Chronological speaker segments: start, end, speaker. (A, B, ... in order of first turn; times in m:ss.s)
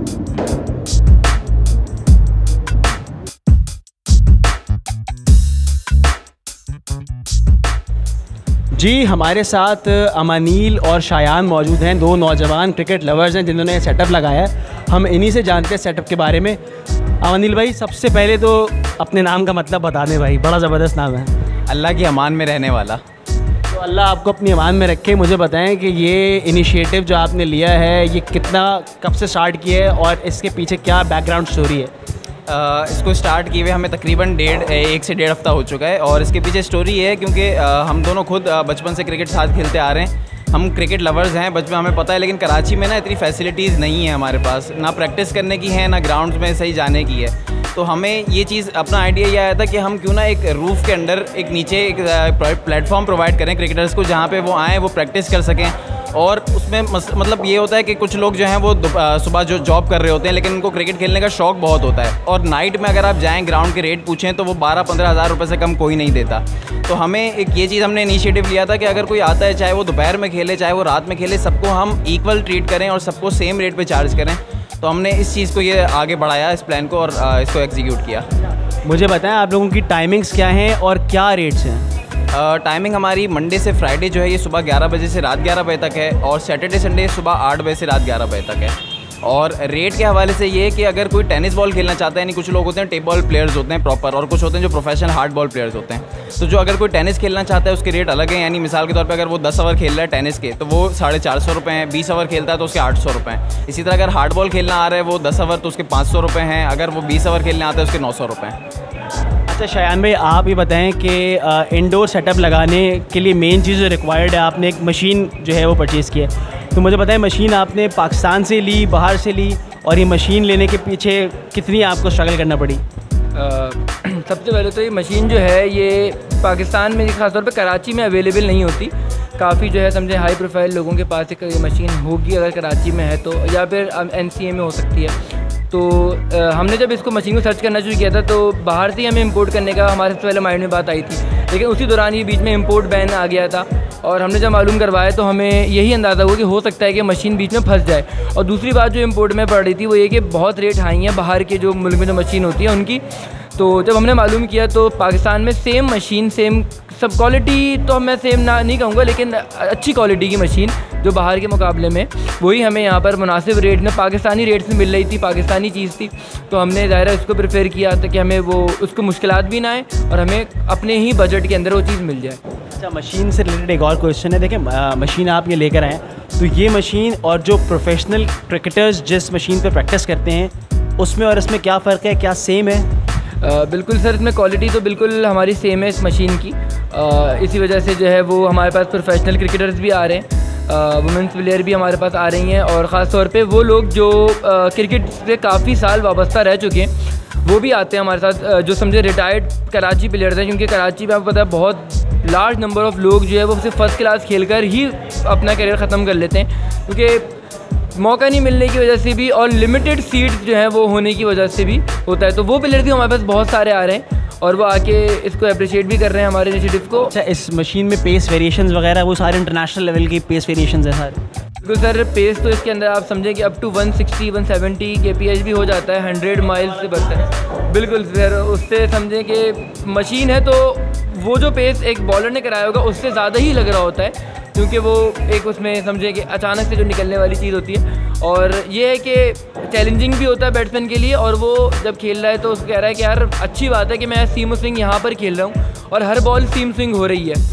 0:08.8-0:16.6 A
0:17.2-0:21.3 A
0:21.7-0:23.0 B
0:23.7-0:31.9 A
0:32.5-1:18.2 B
1:18.8-1:21.9 A
1:22.3-1:48.6 B
1:49.5-2:02.8 A
2:03.3-2:15.1 C
2:15.7-2:33.0 C
2:33.5-2:52.4 C
2:52.8-3:02.9 A
3:03.4-3:27.4 C
3:28.0-3:37.1 C
3:37.1-3:41.2 A
3:41.6-4:07.4 C